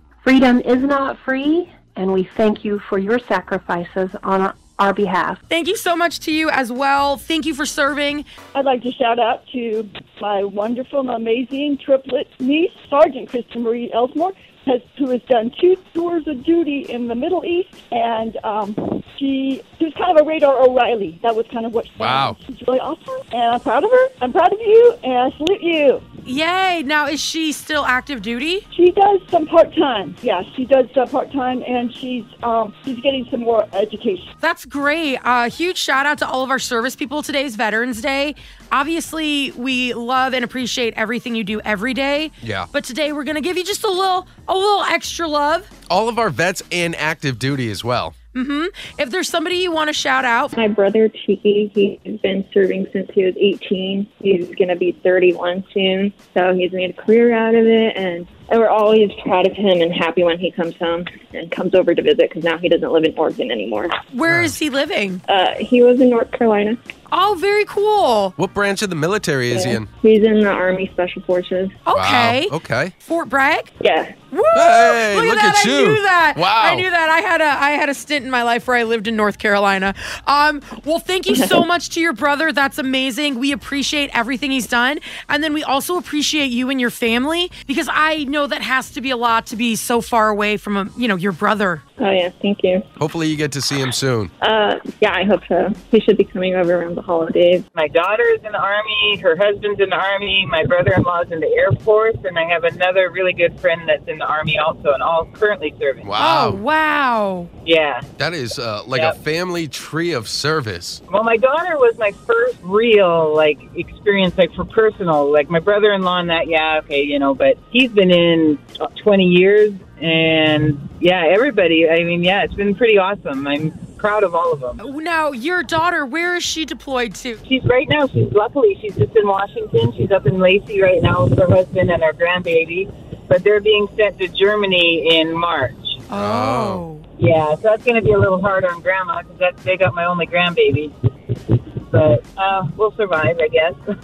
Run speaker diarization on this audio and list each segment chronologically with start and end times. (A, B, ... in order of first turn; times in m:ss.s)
0:00.2-0:05.4 A
0:05.5-0:08.2 B
0:08.5-0:26.0 C
0:22.0-0:22.4 D
0:26.2-0:28.6 B
0:28.7-0:34.3 C
0:34.4-0:45.7 B
0:42.4-0:42.7 D
0:45.9-0:48.1 D
0:48.3-0:50.5 B
0:50.6-1:03.9 E
1:04.1-1:05.2 B
1:04.3-1:04.5 D
1:05.3-1:06.8 E
1:07.1-1:08.3 B
1:08.4-1:09.9 D
1:09.5-1:11.7 E
1:11.8-1:13.7 B
1:11.9-1:12.9 D
1:13.8-1:14.1 E
1:14.3-1:31.8 B
1:14.5-1:16.8 D
1:21.3-1:21.6 E
1:32.0-1:32.8 E
1:33.0-1:34.3 D
1:34.4-1:37.6 E
1:37.7-1:46.1 F
1:46.0-1:46.6 D
1:46.2-1:47.5 B
1:47.6-1:48.0 F
1:48.2-1:51.0 D
1:51.1-2:04.8 F
2:04.8-2:07.4 B
2:07.5-2:16.0 F
2:16.1-2:17.0 B
2:16.1-2:16.8 D
2:17.2-2:20.9 F
2:21.9-2:23.8 F